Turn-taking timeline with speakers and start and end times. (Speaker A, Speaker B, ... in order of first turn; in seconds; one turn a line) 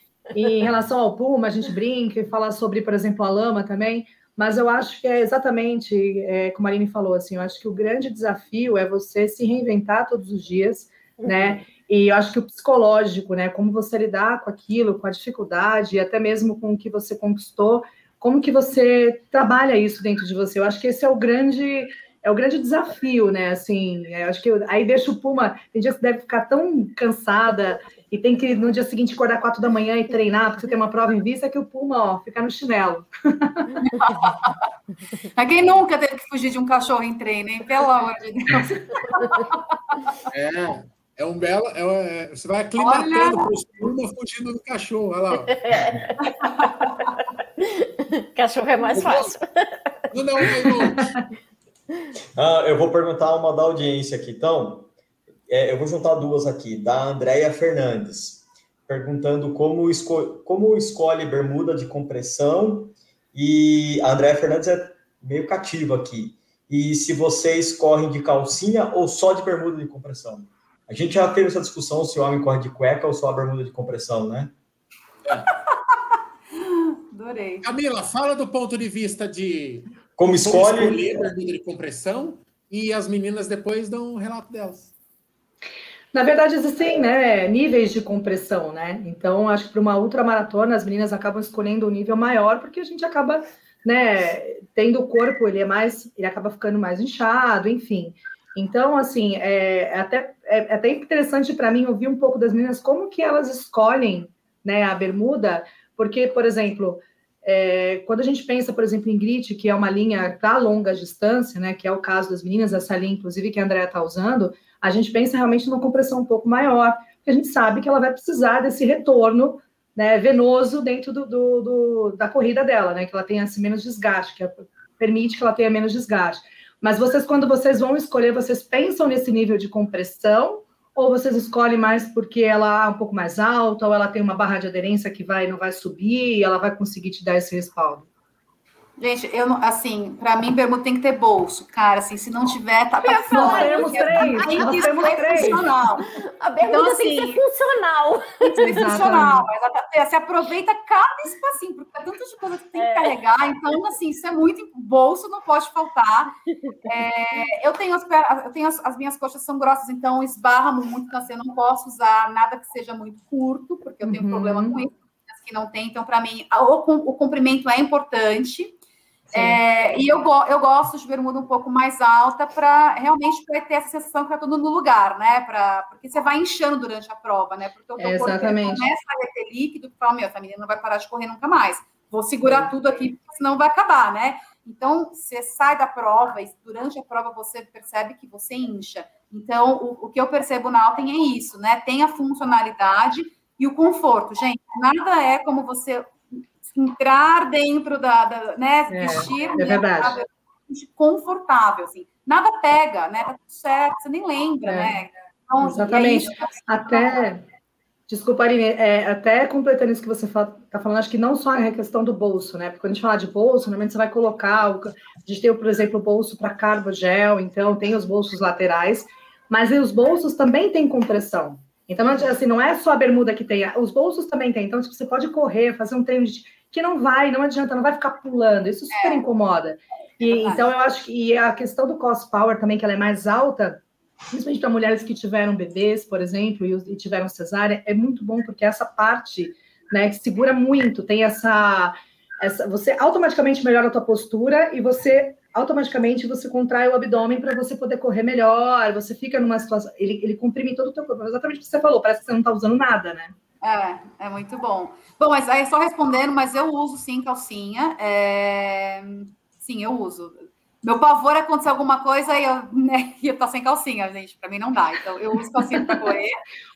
Speaker A: 0.3-33.8
Speaker B: 11.2-11.6
Speaker C: 33.9-34.6
Speaker C: 35.4-39.6
Speaker D: 40.3-45.5
Speaker C: 42.8-43.5
Speaker B: 45.5-46.1
Speaker C: 46.4-46.9
Speaker B: 47.6-49.9
Speaker D: 48.9-49.4
Speaker D: 50.1-51.2
Speaker E: 52.4-54.9
Speaker E: 55.5-74.5
Speaker C: 76.5-77.7
Speaker D: 77.6-84.9
Speaker E: 80.2-81.3
Speaker A: 86.1-138.1
Speaker C: 139.0-146.1
Speaker B: 143.0-145.7
Speaker A: 143.3-145.7
Speaker B: 146.4-148.7
Speaker C: 146.6-147.4
Speaker C: 148.4-156.3
Speaker A: 148.6-149.5
Speaker B: 152.8-153.1
Speaker C: 156.9-168.8
Speaker A: 164.0-164.8
Speaker A: 169.3-169.6
Speaker C: 169.3-207.2
Speaker A: 178.0-178.9
Speaker A: 182.4-182.7
Speaker A: 198.9-200.2
Speaker A: 204.7-205.0
Speaker A: 205.6-207.4
Speaker A: 208.1-253.3
Speaker C: 228.9-229.2
Speaker C: 230.2-230.7
Speaker C: 253.6-266.4